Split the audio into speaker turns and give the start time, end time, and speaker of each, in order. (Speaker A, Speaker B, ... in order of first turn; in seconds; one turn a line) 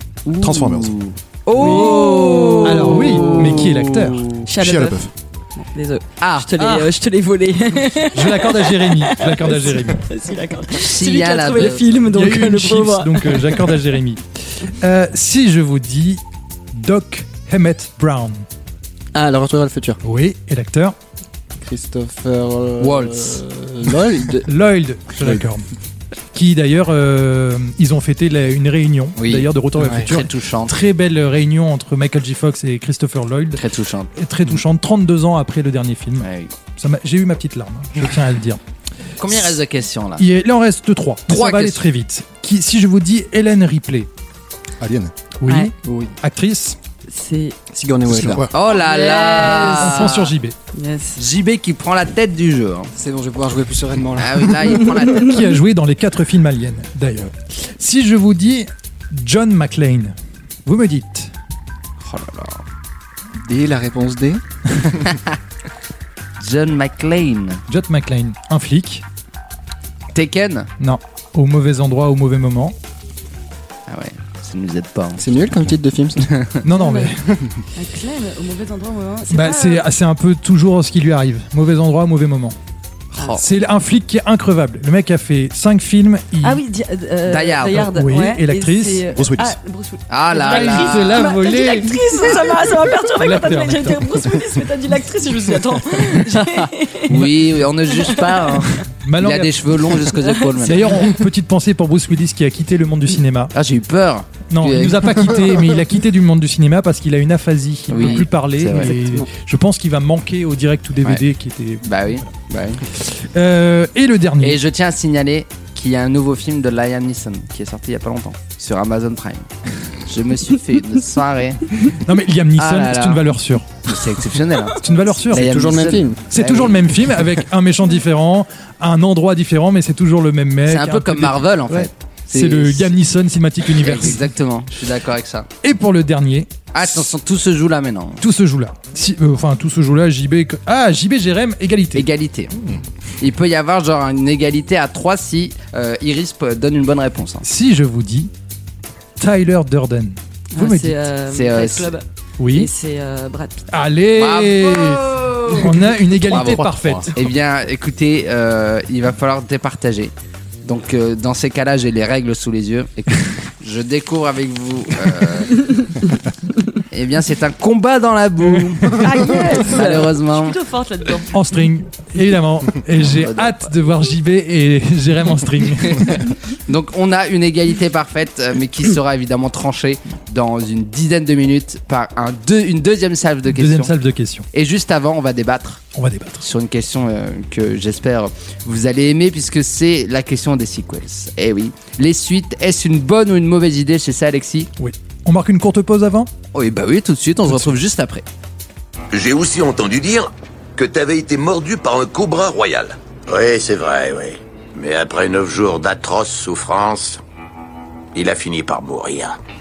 Speaker A: 0.2-4.3
Speaker B: 0.4-1.0
Speaker C: 1.6-3.4
Speaker D: 2.6-4.2
Speaker C: 4.5-13.7
Speaker B: 4.5-5.1
Speaker A: 6.2-6.9
Speaker D: 8.1-10.0
Speaker A: 10.7-11.8
Speaker D: 11.6-16.2
Speaker D: 16.7-18.4
Speaker E: 19.1-20.0
Speaker D: 20.0-20.9
Speaker E: 21.6-24.5
Speaker A: 22.8-23.4
Speaker D: 24.4-25.6
Speaker D: 26.3-33.6
Speaker A: 29.2-30.8
Speaker E: 29.8-30.1
Speaker A: 33.5-34.1
Speaker D: 34.1-38.6
Speaker A: 36.2-36.5
Speaker A: 39.2-40.2
Speaker D: 40.2-44.1
Speaker A: 41.3-41.9
Speaker B: 44.8-45.1
Speaker D: 45.4-46.8
Speaker C: 45.5-45.7
Speaker E: 45.8-46.1
Speaker C: 47.1-47.5
Speaker E: 47.7-48.5
Speaker B: 48.0-48.5
Speaker A: 48.5-50.3
Speaker C: 48.7-50.2
Speaker D: 49.6-50.5
Speaker C: 50.7-51.2
Speaker A: 51.2-52.9
Speaker E: 52.9-55.0
Speaker A: 54.2-55.5
Speaker D: 55.2-61.3
Speaker A: 62.0-62.6
Speaker E: 63.4-64.4
Speaker A: 66.4-67.6
Speaker D: 67.7-69.0
Speaker A: 70.1-70.7
Speaker D: 70.8-72.8
Speaker A: 73.9-75.7
Speaker E: 75.2-76.3
Speaker A: 76.2-76.6
Speaker D: 76.6-77.4
Speaker C: 76.7-77.1
Speaker C: 77.8-79.9
Speaker D: 79.3-82.5
Speaker A: 83.1-83.4
Speaker D: 83.3-86.6
Speaker C: 86.4-97.3
Speaker A: 87.3-87.9
Speaker D: 87.7-89.0
Speaker B: 89.1-89.6
Speaker A: 90.1-91.3
Speaker D: 90.5-92.0
Speaker D: 93.0-94.1
Speaker A: 96.3-101.1
Speaker C: 97.9-98.8
Speaker D: 99.0-99.5
Speaker C: 100.2-101.1
Speaker D: 100.6-103.5
Speaker A: 103.5-105.5
Speaker D: 104.5-112.3
Speaker A: 107.9-108.9
Speaker C: 108.0-109.3
Speaker A: 111.8-112.8
Speaker D: 112.9-114.6
Speaker A: 114.4-119.5
Speaker A: 120.0-121.7
Speaker D: 121.9-123.7
Speaker A: 122.6-123.2
Speaker A: 123.8-126.9
Speaker D: 124.8-125.5
Speaker E: 125.3-126.2
Speaker D: 126.3-134.2
Speaker A: 130.7-132.9
Speaker A: 133.7-135.5
Speaker D: 135.6-136.5
Speaker A: 136.7-138.2
Speaker D: 138.2-142.1
Speaker A: 141.9-142.6
Speaker A: 143.2-147.4
Speaker D: 147.4-148.3
Speaker D: 149.2-150.9
Speaker C: 150.5-153.6
Speaker A: 151.3-151.9
Speaker D: 152.4-152.7
Speaker D: 153.7-157.1
Speaker A: 154.2-160.1
Speaker B: 156.3-157.1
Speaker A: 160.6-165.7
Speaker A: 166.9-170.6
Speaker C: 168.9-171.4
Speaker D: 171.3-176.3
Speaker A: 173.0-173.6
Speaker A: 176.7-183.9
Speaker D: 183.5-184.5
Speaker A: 184.5-185.8
Speaker D: 185.9-186.4
Speaker A: 186.4-194.7
Speaker D: 194.8-196.3
Speaker A: 196.5-198.2
Speaker D: 197.5-197.7
Speaker F: 199.1-207.2
Speaker F: 208.1-209.3